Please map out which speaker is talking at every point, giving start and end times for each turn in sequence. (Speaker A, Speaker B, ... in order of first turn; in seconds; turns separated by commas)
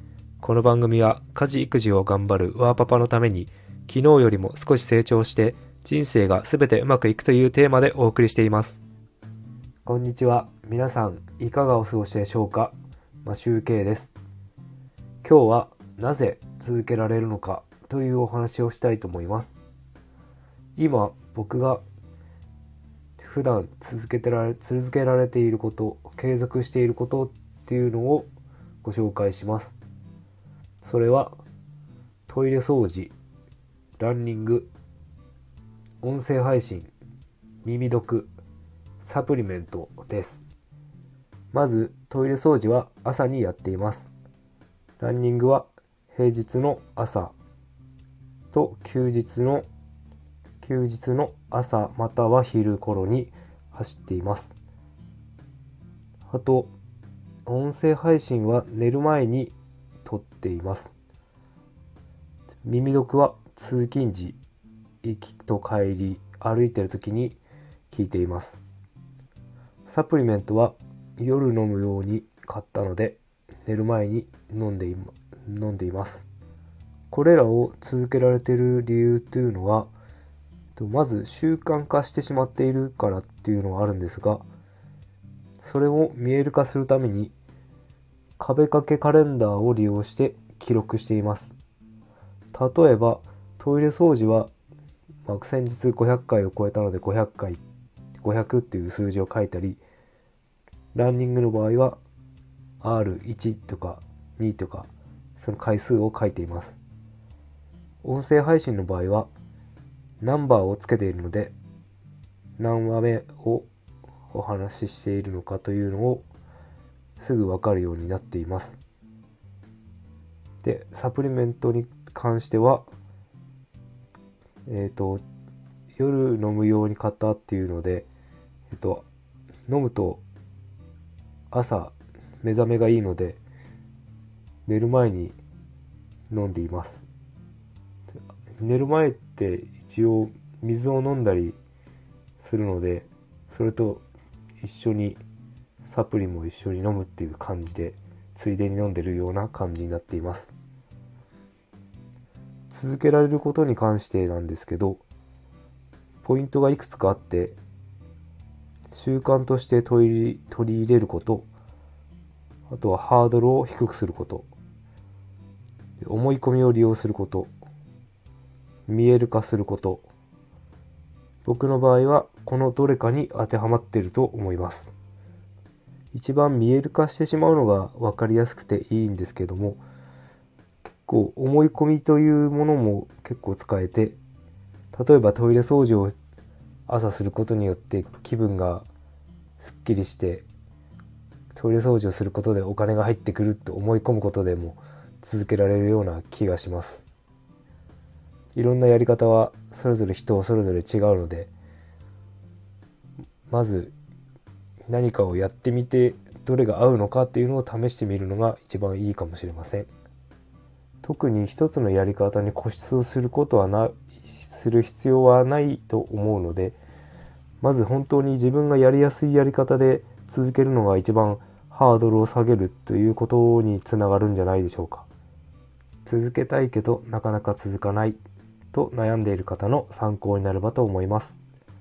Speaker A: 0.4-8.8, Speaker A: 9.9-14.2, Speaker A: 15.2-19.6, Speaker A: 20.8-21.8, Speaker A: 23.2-28.3, Speaker A: 28.8-29.8, Speaker A: 30.8-31.4, Speaker A: 32.3-33.1, Speaker A: 34.0-34.7, Speaker A: 36.0-36.9, Speaker A: 37.6-38.3, Speaker A: 39.0-40.5, Speaker A: 41.5-44.1, Speaker A: 45.0-47.4, Speaker A: 48.5-49.7, Speaker A: 50.6-54.5, Speaker A: 56.3-56.7, Speaker A: 57.5-60.9, Speaker A: 62.6-64.4, Speaker A: 65.0-67.4, Speaker A: 67.9-68.6, Speaker A: 69.9-76.3, Speaker A: 77.1-79.9, Speaker A: 80.8-84.5, Speaker A: 85.6-87.3, Speaker A: 88.4-91.5, Speaker A: 92.5-94.5, Speaker A: 95.3-97.6, Speaker A: 98.2-99.8, Speaker A: 100.9-102.0, Speaker A: 102.8-106.8, Speaker A: 108.0-109.3, Speaker A: 110.2-111.5, Speaker A: 112.6-113.7, Speaker A: 114.3-116.3, Speaker A: 117.2-118.8, Speaker A: 120.6-122.9, Speaker A: 124.7-125.2, Speaker A: 126.0-128.1, Speaker A: 128.7-129.1, Speaker A: 129.7-130.2, Speaker A: 131.5-133.4, Speaker A: 134.7-135.4, Speaker A: 136.3-137.1, Speaker A: 138.6-141.6, Speaker A: 142.4-144.1, Speaker A: 144.6-145.2, Speaker A: 145.8-150.5, Speaker A: 152.7-155.0, Speaker A: 156.2-157.6, Speaker A: 158.9-161.5, Speaker A: 162.7-164.5, Speaker A: 166.0-167.5, Speaker A: 168.9-170.1, Speaker A: 171.4-174.9, Speaker A: 176.1-179.8, Speaker A: 181.1-184.2, Speaker A: 184.9-186.1, Speaker A: 186.9-188.9, Speaker A: 189.6-190.5, Speaker A: 191.5-197.1, Speaker A: 198.6-201.5, Speaker A: 203.5-203.9, Speaker A: 204.9-209.9, Speaker A: 211.0-216.8, Speaker A: 217.6-225.1, Speaker A: 226.1-228.2, Speaker A: 228.7-231.4